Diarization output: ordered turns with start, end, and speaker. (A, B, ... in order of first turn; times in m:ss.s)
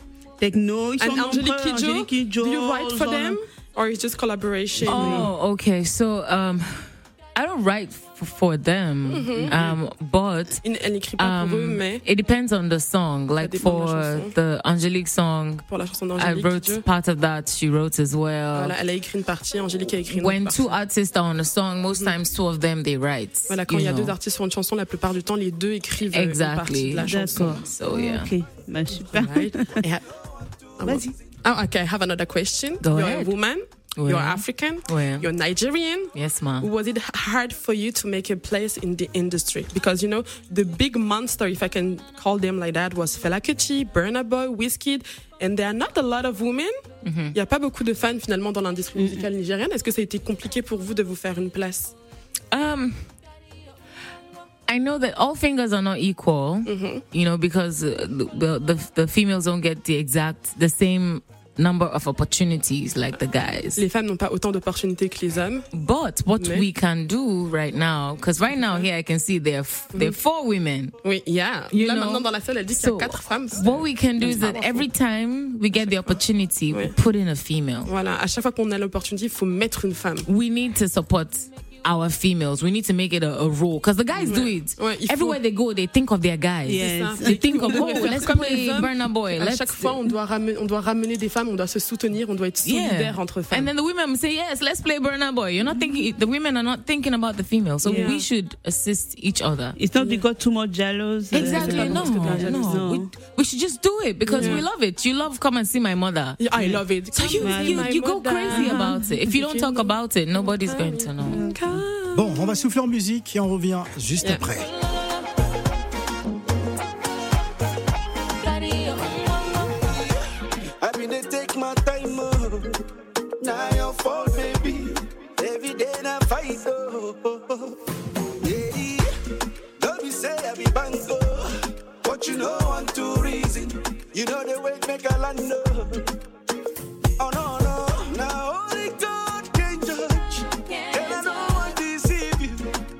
0:00.4-0:03.4 A
0:01.0-0:05.3 B
0:04.8-0:05.3 A
0:04.8-0:10.6 C
0:09.1-0:09.8 B
0:10.6-0:12.0 B
0:11.2-0:15.6 C
0:13.4-0:14.3 B
0:15.7-0:16.8 B
0:16.2-0:18.8 C
0:18.5-0:20.8 B
0:20.1-0:24.1 C
0:23.5-0:27.6 B
0:26.1-0:28.3 C
0:27.0-0:29.8 A
0:29.0-0:30.1 B
0:30.8-0:46.8 B
0:30.8-0:31.1 A
0:32.8-0:33.3 C
0:34.0-0:35.3 C
0:36.1-0:36.7 C
0:47.0-0:47.4 C
0:47.3-0:51.9 B
0:52.5-0:53.0 C
0:54.7-1:03.8 C
0:56.6-0:57.0 B
1:03.8-1:05.7 B
1:05.7-1:10.9 C
1:06.4-1:06.7 B
1:08.6-1:08.9 B
1:11.0-1:14.9 B
1:11.7-1:17.9 C
1:15.8-1:16.2 B
1:16.7-1:17.0 B
1:17.9-1:20.3 B
1:20.2-1:30.0 C
1:24.2-1:25.4 B
1:26.7-1:28.3 A
1:26.8-1:33.7 B
1:32.6-1:39.8 C
1:37.8-1:38.1 A
1:37.8-1:38.2 B
1:39.8-1:43.1 A
1:40.0-1:40.2 B
1:41.3-1:42.9 B
1:41.3-1:46.4 C
1:44.3-1:44.7 B
1:44.4-1:44.6 A
1:46.4-1:49.9 B
1:47.1-1:51.4 C
1:47.4-1:47.9 A
1:48.5-1:49.0 A
1:50.5-1:52.3 B
1:51.3-1:51.6 A
1:52.1-1:54.7 D
1:54.5-1:55.2 C
1:58.4-1:59.7 C
1:59.5-2:00.2 E
2:00.8-2:02.7 E
2:03.4-2:07.7 E
2:08.4-2:09.1 E
2:09.8-2:11.5 E
2:12.0-2:16.0 E
2:17.2-2:22.6 E
2:20.7-2:21.7 C